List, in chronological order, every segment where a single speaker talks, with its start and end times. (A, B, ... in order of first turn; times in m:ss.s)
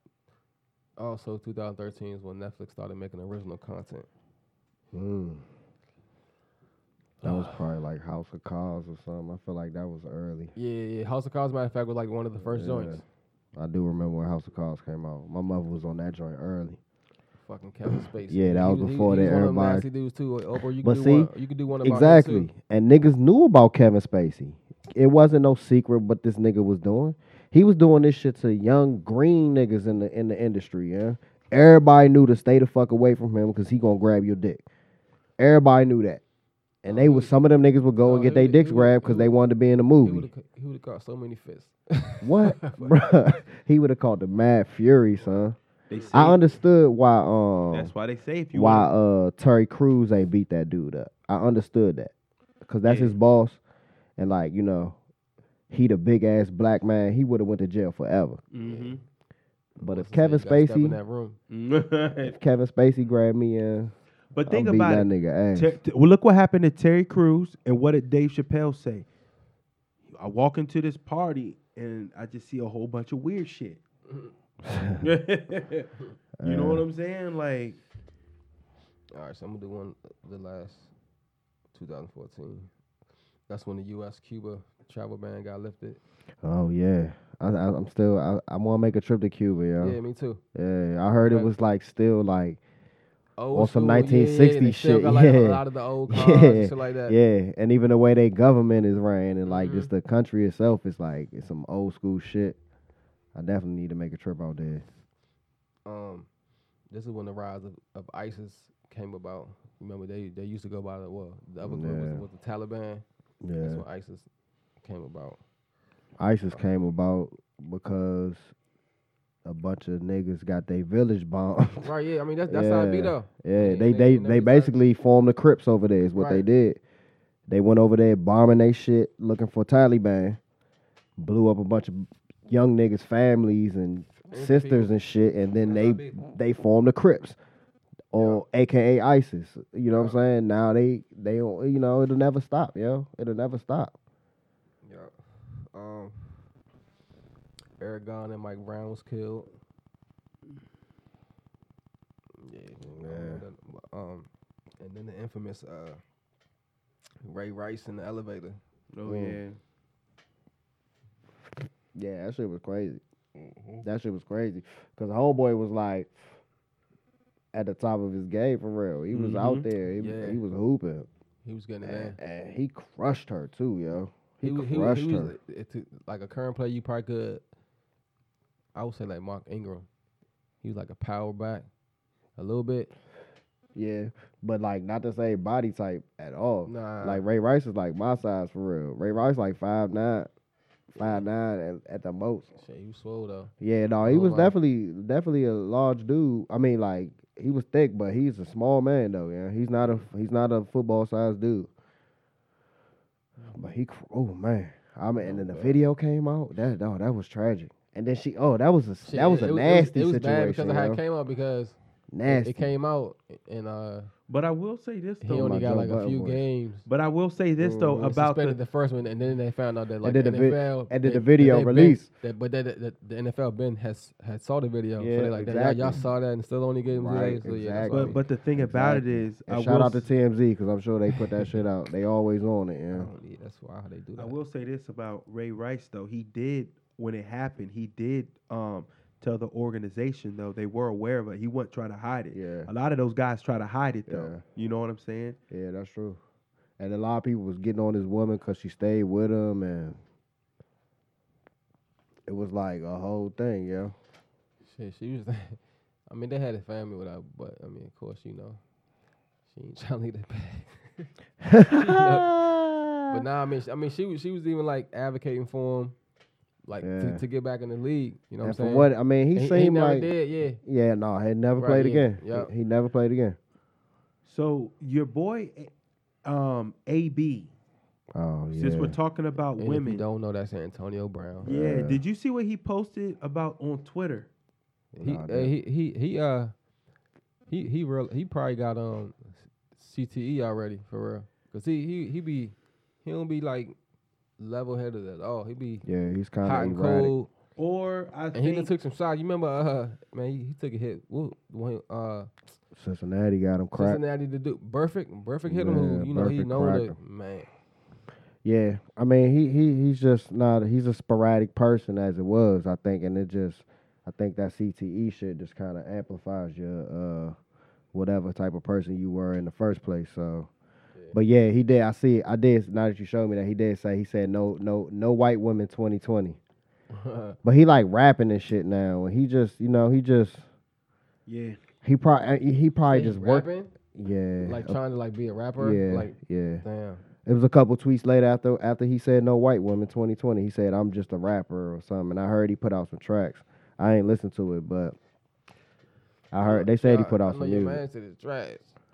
0:01.0-0:04.1 A
0:04.9-0:05.4 B
0:07.2-0:07.6 A
0:07.2-0:10.5 B
0:10.6-0:13.0 A
0:12.5-0:13.0 B
0:13.6-0:16.8 B
0:17.4-0:22.5 A
0:18.3-0:19.9 B
0:20.8-0:21.3 B
0:21.8-0:34.6 B
0:35.4-0:36.2 B
0:36.8-0:40.3 B
0:36.9-0:37.3 A
0:38.0-0:39.4 A
0:40.0-0:43.1 A
0:42.2-0:45.6 B
0:45.9-0:46.5 C
0:46.1-0:47.9 B
0:47.7-0:48.9 C
0:48.5-0:52.1 B
0:52.6-0:53.6 B
0:52.8-0:53.2 C
0:54.2-0:55.0 B
0:55.7-0:58.4 B
0:58.5-0:59.0 C
0:58.6-0:59.0 A
0:59.8-1:01.0 B
0:59.8-1:01.4 A
1:01.5-1:02.4 C
1:02.2-1:03.9 B
1:04.3-1:09.1 C
1:04.5-1:05.8 B
1:10.1-1:13.8 C
1:14.6-1:15.1 B
1:15.0-1:15.9 C
1:16.4-1:16.8 B
1:16.4-1:17.8 C
1:19.1-1:20.9 A
1:21.7-1:22.7 A
1:23.5-1:26.0 A
1:26.4-1:30.0 B
1:29.8-1:30.4 A
1:30.6-1:32.6 B
1:31.2-1:31.5 A
1:33.4-1:37.2 A
1:33.5-1:42.6 B
1:39.5-1:39.9 A
1:43.4-1:44.8 B
1:45.9-1:46.3 A
1:46.9-1:53.0 A
1:51.6-1:52.2 B
1:53.4-1:53.8 B
1:53.6-1:54.3 A
1:54.8-1:55.4 A
1:56.2-1:58.5 B
1:59.4-2:01.9 B
2:01.8-2:04.7 A
2:02.5-2:06.8 B
2:06.2-2:06.5 A
2:07.5-2:10.4 B
2:11.2-2:17.4 B
2:14.3-2:14.9 A
2:15.6-2:16.2 A
2:18.1-2:24.0 B
2:24.8-2:26.4 A
2:27.8-2:29.5 A
2:32.4-2:34.3 A
2:32.8-2:33.4 B
2:34.8-2:36.0 A
2:37.2-2:38.6 A
2:38.9-2:39.6 C
2:39.0-2:39.4 B
2:42.0-2:43.0 B
2:43.8-2:46.2 B
2:47.5-2:51.1 B
2:49.1-2:49.7 C
2:50.0-2:50.4 A
2:51.4-2:52.2 A
2:51.8-2:55.3 B
2:54.4-2:57.4 A
2:58.8-2:59.9 A
3:00.6-3:01.7 A
3:02.4-3:02.9 A
3:03.8-3:10.3 B
3:06.7-3:07.2 A
3:11.0-3:11.2 A
3:11.0-3:12.5 B
3:12.6-3:13.5 A
3:13.6-3:21.7 B
3:14.0-3:14.6 A
3:23.5-3:31.0 B
3:29.0-3:34.1 A
3:32.1-3:32.7 B
3:34.3-3:35.6 C
3:35.2-3:36.9 A
3:35.3-3:36.4 B
3:36.9-3:38.6 C
3:37.6-3:38.1 B
3:38.0-3:48.2 A
3:40.0-3:42.1 B
3:45.0-3:46.0 B
3:46.9-3:53.1 B
3:47.9-3:50.1 C
3:52.9-3:54.4 A
3:54.2-4:05.4 C
4:02.3-4:02.7 B
4:04.1-4:04.4 B
4:05.5-4:06.2 B
4:06.8-4:10.0 B
4:12.3-4:14.0 B
4:14.6-4:18.6 A
4:19.5-4:22.3 A
4:21.4-4:23.2 B
4:23.1-4:26.0 A
4:26.6-4:30.6 A
4:26.8-4:27.2 B
4:28.4-4:33.4 B
4:31.6-4:32.5 A
4:34.2-4:35.7 C
4:36.2-4:37.5 C
4:38.2-4:39.0 B
4:38.5-4:40.0 C
4:39.6-4:41.5 A
4:41.4-4:42.0 B
4:41.4-4:44.3 C
4:44.9-4:45.6 B
4:45.0-4:46.5 A
4:47.5-4:53.8 A
4:54.4-4:55.8 A
4:55.8-4:57.1 B
4:56.4-4:57.3 A
4:57.6-4:58.7 C
4:58.4-5:02.3 A
5:02.7-5:04.0 B
5:03.7-5:07.5 A
5:05.5-5:07.0 B
5:08.4-5:17.4 B
5:17.9-5:20.5 B
5:21.1-5:26.4 B
5:26.9-5:27.4 A
5:27.4-5:30.4 B
5:31.3-5:31.6 C
5:31.8-5:34.8 B
5:32.9-5:33.7 A
5:34.4-5:37.0 A
5:35.6-5:36.6 B
5:37.2-5:45.0 B
5:46.3-5:47.8 B
5:46.4-5:48.7 A